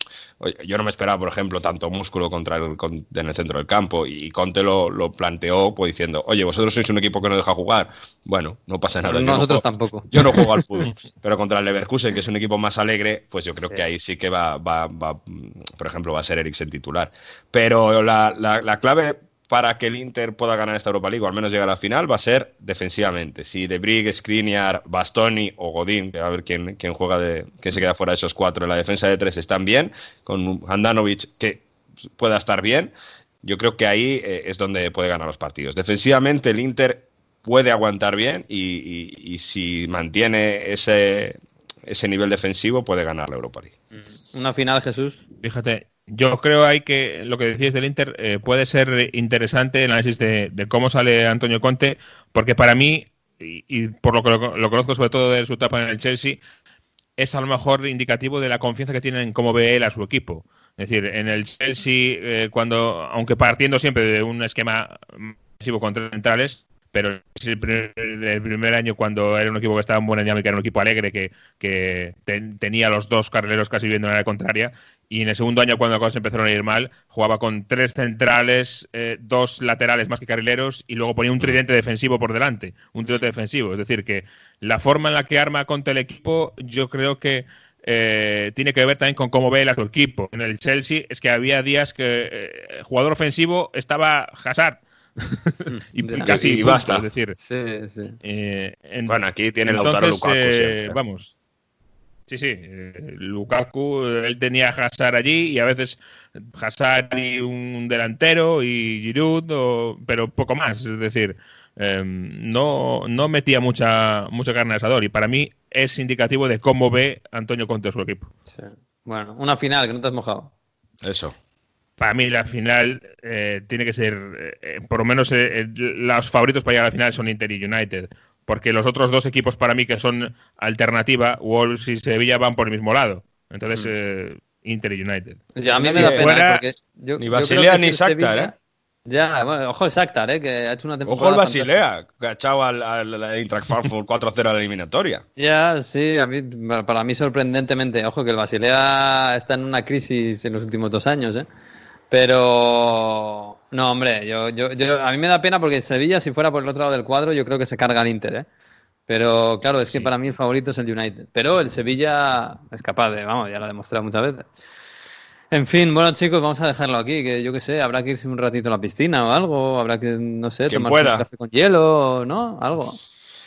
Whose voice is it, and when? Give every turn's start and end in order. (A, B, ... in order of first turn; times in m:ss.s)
0:00.4-0:31.6 A
0:09.0-0:10.6 B
0:13.6-0:13.8 B
0:32.2-0:32.9 A
0:33.4-0:43.7 A
0:44.3-0:45.2 B
0:45.4-0:56.4 C
0:57.2-1:37.4 C
1:35.7-1:36.4 B
1:36.2-1:37.1 A
1:37.4-1:38.2 B
1:38.2-1:41.3 C
1:39.1-1:41.0 A
1:42.3-1:58.3 C
1:58.5-2:00.5 B
2:01.0-2:01.4 A
2:02.0-2:16.6 C
2:15.6-2:18.5 B
2:15.8-2:16.3 A
2:17.2-2:18.5 A
2:19.1-2:21.8 B
2:21.1-2:25.2 A
2:25.4-2:31.5 B
2:32.1-2:38.5 B
2:39.1-2:44.6 B
2:39.8-2:40.1 C
2:45.5-2:53.0 B
2:50.7-2:51.3 A